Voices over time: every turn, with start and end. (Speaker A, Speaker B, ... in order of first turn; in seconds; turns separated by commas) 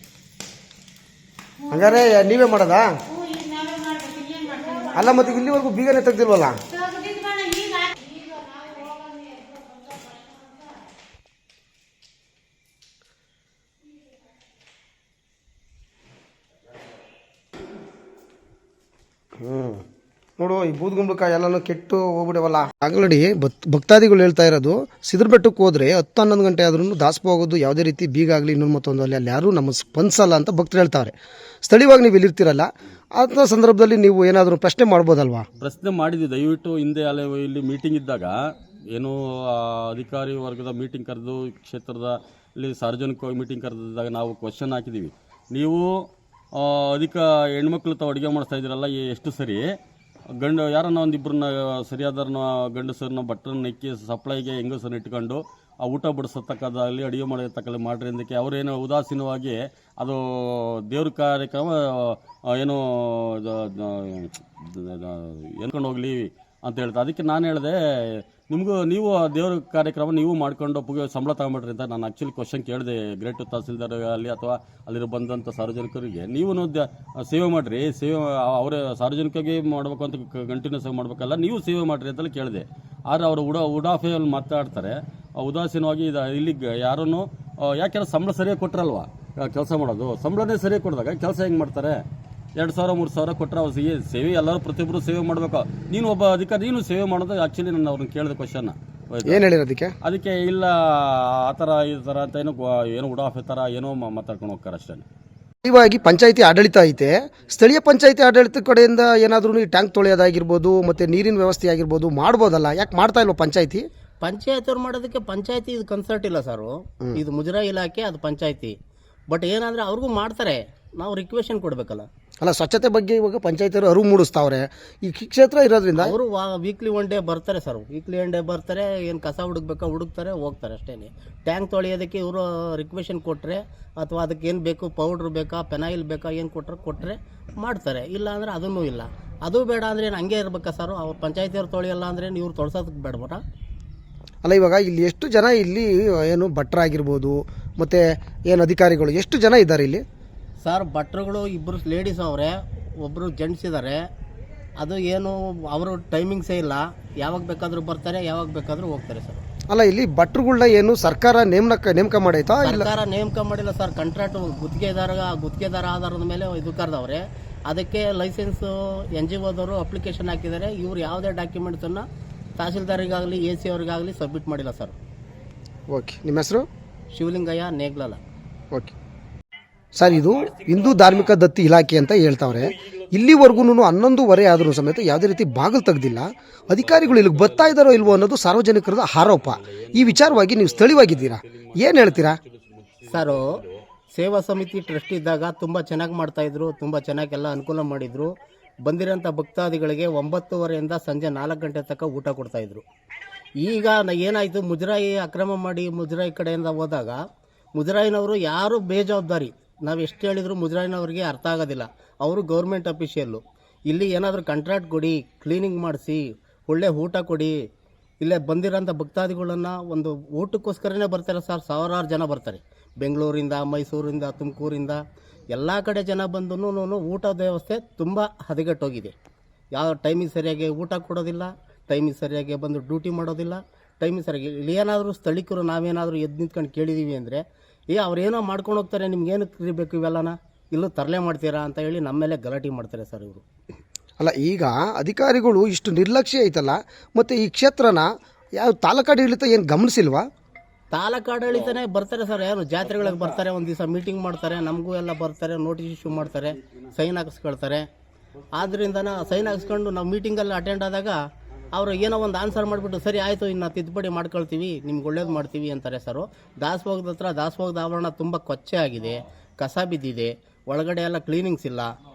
Speaker A: 1.6-2.1, Speaker B: 1.7-2.9, Speaker A: 3.1-5.4, Speaker B: 4.9-6.6, Speaker A: 6.7-10.9, Speaker B: 19.4-19.8, Speaker B: 20.4-31.1, Speaker B: 31.6-35.5, Speaker C: 35.6-38.3, Speaker C: 38.9-49.6, Speaker C: 50.4-92.0, Speaker C: 92.6-99.5, Speaker B: 99.2-99.9, Speaker C: 100.0-105.0, Speaker B: 105.7-113.8, Speaker D: 114.2-118.8, Speaker D: 119.3-122.1, Speaker B: 122.4-126.1, Speaker D: 126.0-143.4, Speaker B: 144.4-150.0, Speaker D: 150.6-154.0, Speaker D: 154.8-159.4, Speaker B: 159.7-162.9, Speaker D: 162.6-172.1, Speaker D: 172.6-174.9, Speaker B: 175.9-176.7, Speaker D: 177.1-178.2, Speaker B: 179.9-192.4, Speaker C: 180.0-181.3, Speaker C: 182.6-183.5, Speaker C: 186.7-188.2, Speaker C: 189.2-193.8, Speaker D: 193.1-193.6, Speaker D: 194.1-202.8, Speaker D: 203.6-207.2, Speaker D: 207.8-217.6, Speaker D: 218.2-225.0, Speaker D: 225.5-229.1, Speaker D: 229.7-243.4, Speaker B: 244.2-250.3, Speaker D: 250.9-257.9, Speaker C: 252.9-253.3, Speaker D: 258.5-261.2, Speaker D: 261.7-271.9